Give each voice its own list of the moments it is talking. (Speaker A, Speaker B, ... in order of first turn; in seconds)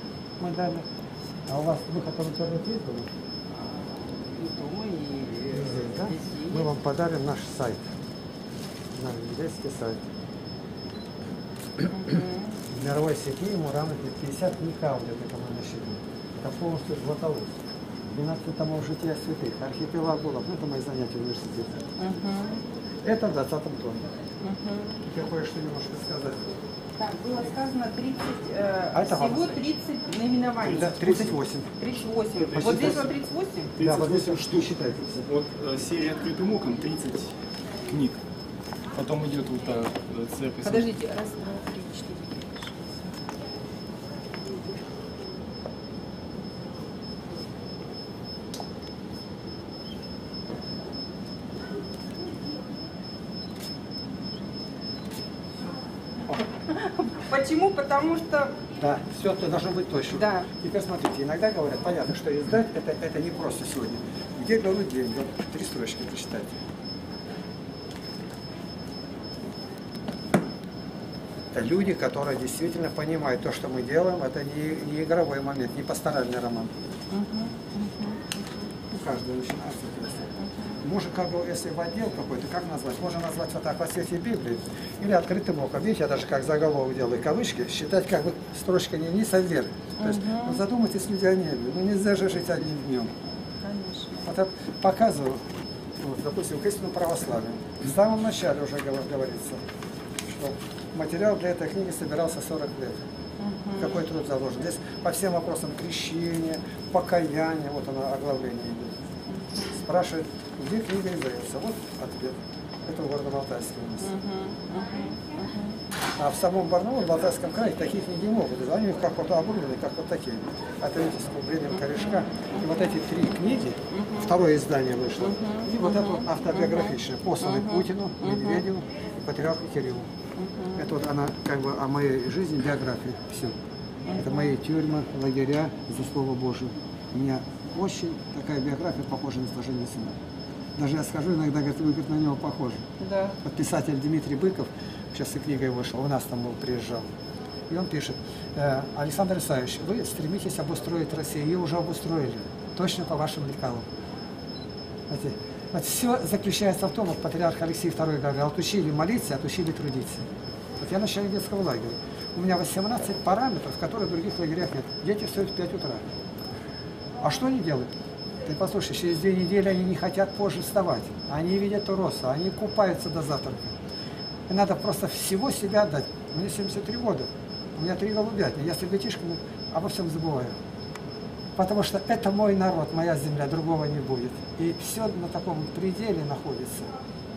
Speaker A: 0.4-0.9, 1.5-3.1, 5.5-7.8, 8.9-10.1, 12.7-17.5, 18.1-21.8, 23.0-24.1, 25.0-26.5, 28.9-29.6, 30.6-31.7, 32.5-33.1, 33.8-35.3, 58.8-66.6, 71.5-76.8, 78.9-93.1, 94.2-95.4, 96.0-99.6, 100.3-103.0, 103.8-108.9, 109.7-114.1, 116.2-130.1, 130.8-133.6, 134.1-140.2, 140.8-142.8, 143.4-147.1, 147.7-153.8, 155.1-160.3, 160.8-166.1, 167.2-167.9, 168.4-173.8, 174.5-180.6, 181.6-186.9
Speaker B: 3.5-6.7, 11.9-12.6, 22.0-22.6, 24.4-25.0, 27.0-33.8, 40.6-43.1, 56.6-58.5, 60.1-60.5, 77.1-78.6, 80.4-80.8, 90.0-90.6, 93.6-94.3, 103.4-104.0, 109.3-109.7, 114.0-115.8, 121.8-122.7, 123.9-124.3, 125.2-128.6, 130.4-130.8, 134.1-134.5, 143.0-143.4
Speaker C: 32.4-33.1, 33.8-34.6, 35.2-37.4, 37.9-38.2, 39.0-40.9